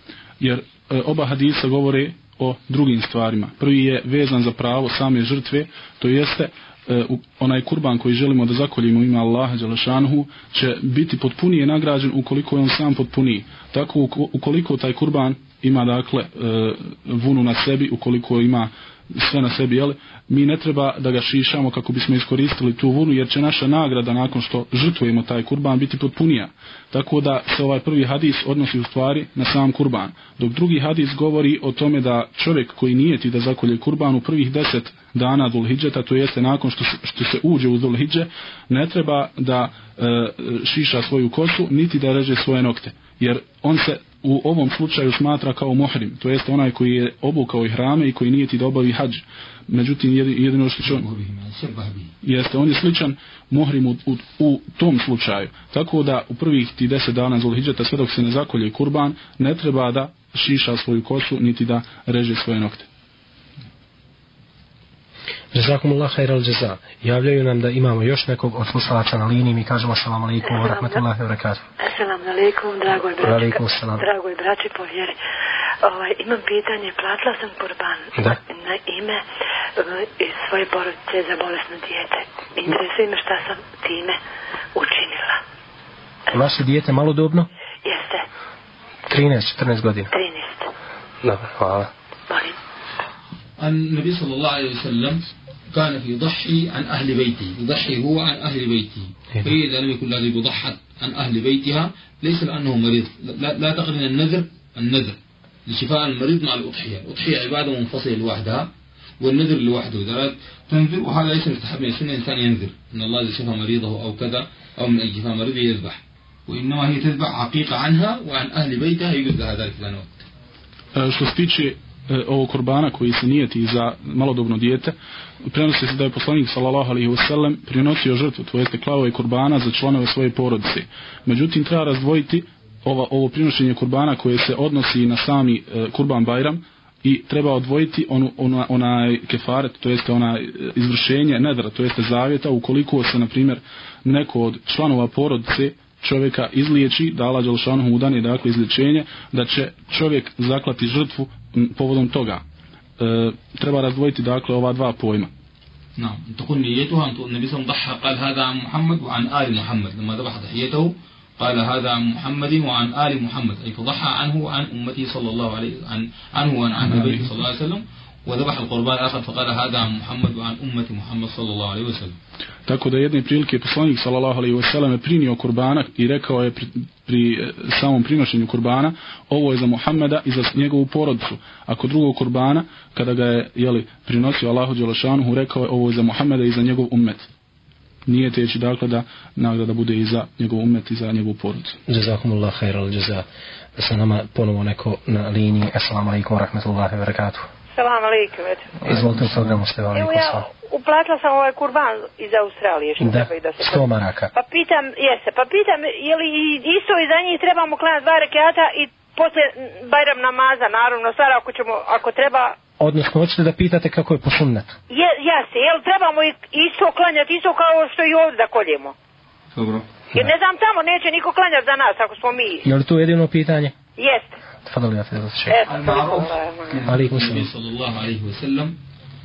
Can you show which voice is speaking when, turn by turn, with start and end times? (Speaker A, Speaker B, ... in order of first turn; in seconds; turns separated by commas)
Speaker A: 0.4-51.0, Speaker B: 50.8-52.1, Speaker A: 52.2-62.8, Speaker C: 65.5-71.6, Speaker D: 70.4-71.0, Speaker D: 71.8-75.1, Speaker C: 73.2-74.0, Speaker D: 75.8-79.2, Speaker D: 79.8-84.2, Speaker D: 84.7-85.4, Speaker C: 86.3-87.5, Speaker D: 87.8-88.2, Speaker C: 89.1-90.1, Speaker D: 90.1-90.7, Speaker C: 91.2-91.9, Speaker D: 92.3-92.6, Speaker B: 93.6-108.7, Speaker B: 109.2-120.3, Speaker A: 120.9-124.9, Speaker A: 125.5-152.4, Speaker A: 153.0-155.3, Speaker B: 156.0-172.2, Speaker A: 166.8-167.3, Speaker A: 172.7-187.3, Speaker A: 188.1-191.8, Speaker C: 191.9-193.2, Speaker C: 193.8-197.4, Speaker E: 197.7-198.9, Speaker C: 198.8-200.4, Speaker E: 199.9-212.6, Speaker C: 203.0-204.3, Speaker C: 212.8-214.8, Speaker E: 214.9-218.9, Speaker B: 219.5-219.8, Speaker E: 220.2-222.6, Speaker C: 222.6-223.7, Speaker E: 224.0-224.3, Speaker C: 224.7-225.6, Speaker E: 225.5-226.8, Speaker B: 225.6-228.8, Speaker C: 226.8-227.5